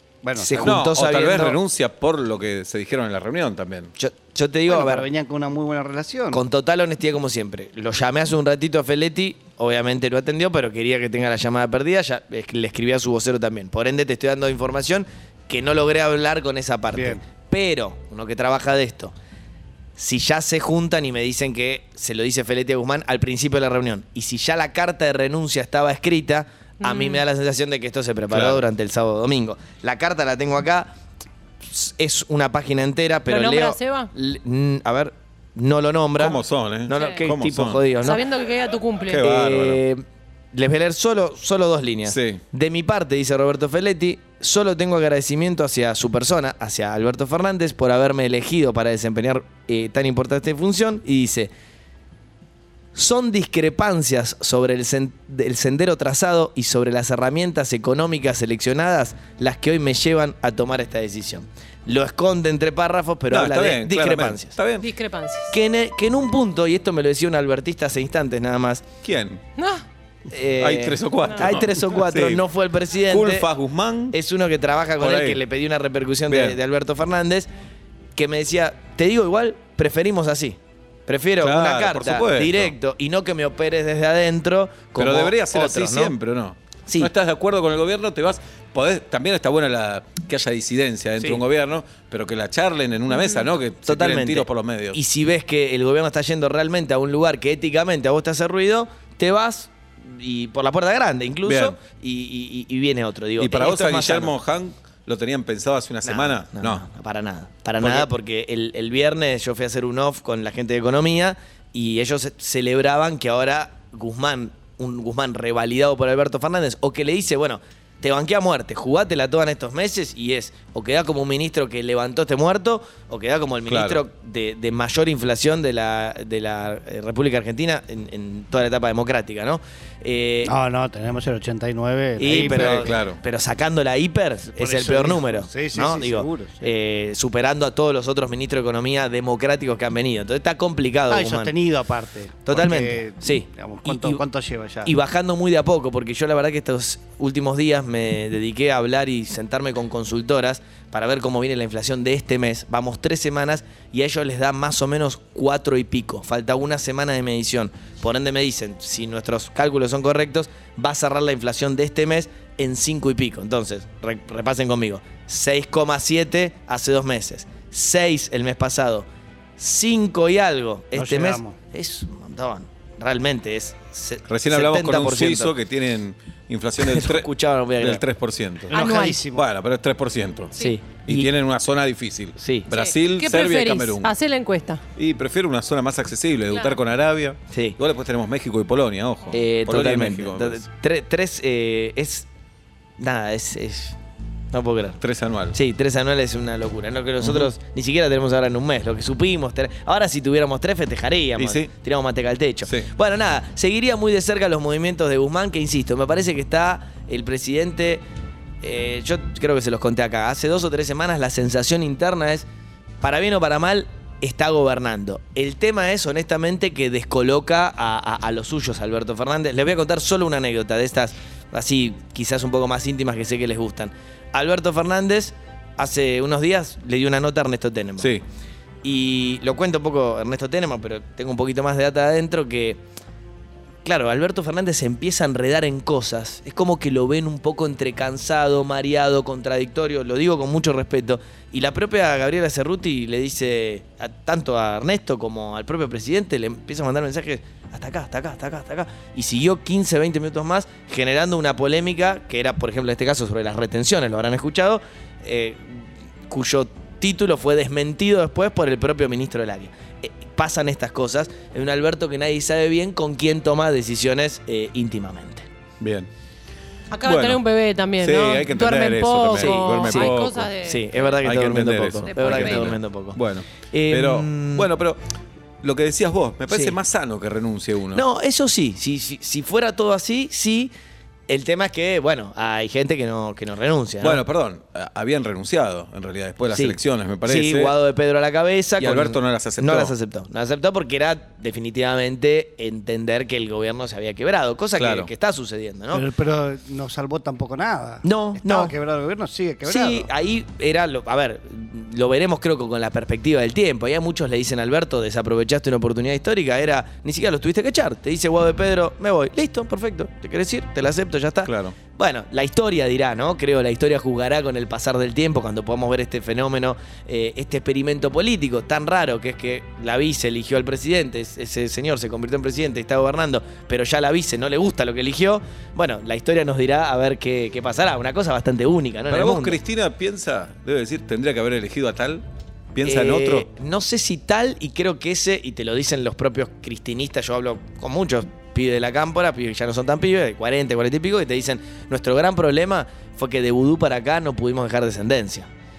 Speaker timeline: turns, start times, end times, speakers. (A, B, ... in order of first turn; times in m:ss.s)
0:00.2-0:00.8 A
0:00.4-0:01.6 B
0:00.6-0:03.9 C
0:04.0-0:05.1 B
0:04.7-0:06.4 A
0:06.3-0:19.1 B
0:16.9-0:17.2 A
0:20.0-0:30.9 B
0:26.8-0:27.2 D
0:28.3-0:28.6 C
0:31.6-0:38.2 B
0:33.3-0:34.1 D
0:36.2-0:37.8 C
0:36.9-0:37.2 D
0:38.0-0:39.2 D
0:39.0-0:39.8 C
0:39.2-0:51.5 B
0:42.1-0:42.4 C
0:52.9-1:04.5 B
1:03.3-1:04.9 C
1:04.8-1:05.6 D
1:05.5-1:08.8 B
1:09.0-1:09.4 C
1:09.6-1:09.8 D
1:10.3-1:13.5 B
1:10.6-1:12.4 C
1:13.1-1:14.2 C
1:14.1-1:17.5 B
1:15.0-1:15.4 C
1:16.3-1:16.6 C
1:18.2-1:26.1 B
1:21.4-1:22.7 C
1:25.0-1:35.0 C
1:26.9-1:27.1 B
1:33.8-1:44.3 B
1:41.4-1:41.8 C
1:43.4-1:46.8 C
1:46.0-2:10.5 B
1:47.8-1:48.1 C
2:03.7-2:04.0 C
2:10.4-2:13.0 A
2:12.2-2:21.5 B
2:12.3-2:13.2 C
2:14.6-2:16.7 A
2:21.1-2:24.9 A
2:22.4-2:24.2 B
2:24.8-2:55.6 B
2:50.9-2:51.6 A
2:54.3-2:57.3 C
2:56.8-2:58.0 B
2:57.8-3:00.5 C
2:58.7-2:59.5 A
2:58.7-2:59.2 D
3:00.6-3:01.3 B
3:01.0-3:04.1 C
3:02.4-3:02.7 B
3:02.7-3:04.8 D
3:05.0-3:10.6 C
3:06.5-3:06.8 D
3:07.5-3:07.8 B
3:09.3-3:12.3 B
3:13.0-3:14.0 B
3:14.5-3:15.0 B
3:15.0-3:15.6 C
3:15.5-3:28.0 B
3:17.2-3:17.5 C
3:21.4-3:21.7 C
3:28.6-3:32.4 B
3:33.0-3:48.1 B
3:48.8-3:52.8 B
3:53.8-4:25.4 B
4:25.8-4:26.1 C
4:26.9-4:30.9 D
4:27.0-4:27.4 C
4:28.0-4:30.5 C
4:29.4-4:34.7 B
4:31.1-4:35.0 C
4:32.0-4:32.7 D
4:35.6-4:38.0 C
4:36.5-4:36.8 B
4:37.9-4:40.7 B
4:41.3-4:44.2 B
4:44.0-4:47.7 C
4:46.5-4:56.1 B
4:48.8-4:49.9 C
4:54.8-4:55.1 C
4:55.9-5:00.1 A
4:58.0-4:58.7 B
4:59.6-5:29.6 B
5:11.4-5:11.8 C
5:29.1-5:33.5 C
5:32.8-5:45.5 B